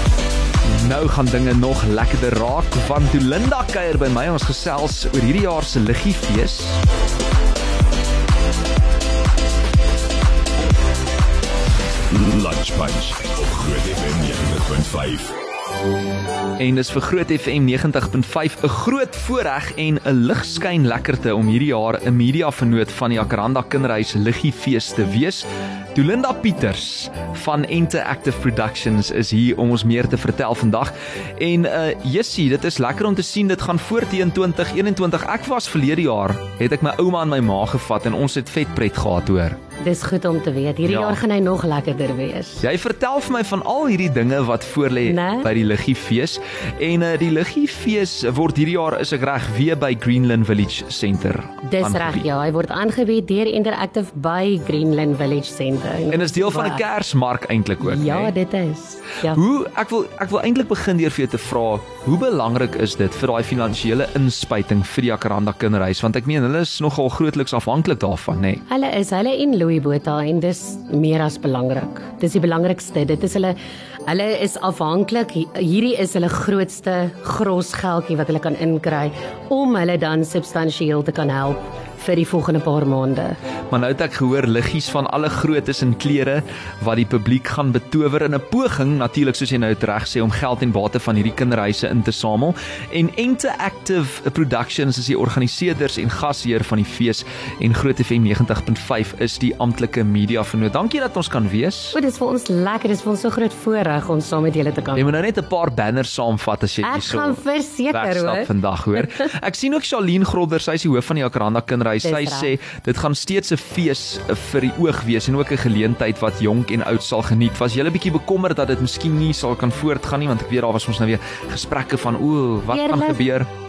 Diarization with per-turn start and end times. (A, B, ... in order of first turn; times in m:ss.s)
0:00.6-0:06.8 A
0:12.1-0:15.3 B
0:16.6-0:39.6 A
0:39.8-0:42.6 C
0:40.8-0:41.2 A
0:42.6-0:52.3 A
0:45.0-0:45.5 C
0:51.7-0:56.8 C
0:56.1-0:58.3 A
0:57.8-0:59.4 C
0:59.2-1:08.6 A
1:08.7-1:13.6 C
1:14.1-1:23.4 C
1:23.7-1:42.0 A
1:41.9-1:45.1 C
1:44.9-2:03.5 A
1:46.8-1:49.0 C
1:52.0-1:52.5 C
2:02.7-2:03.2 C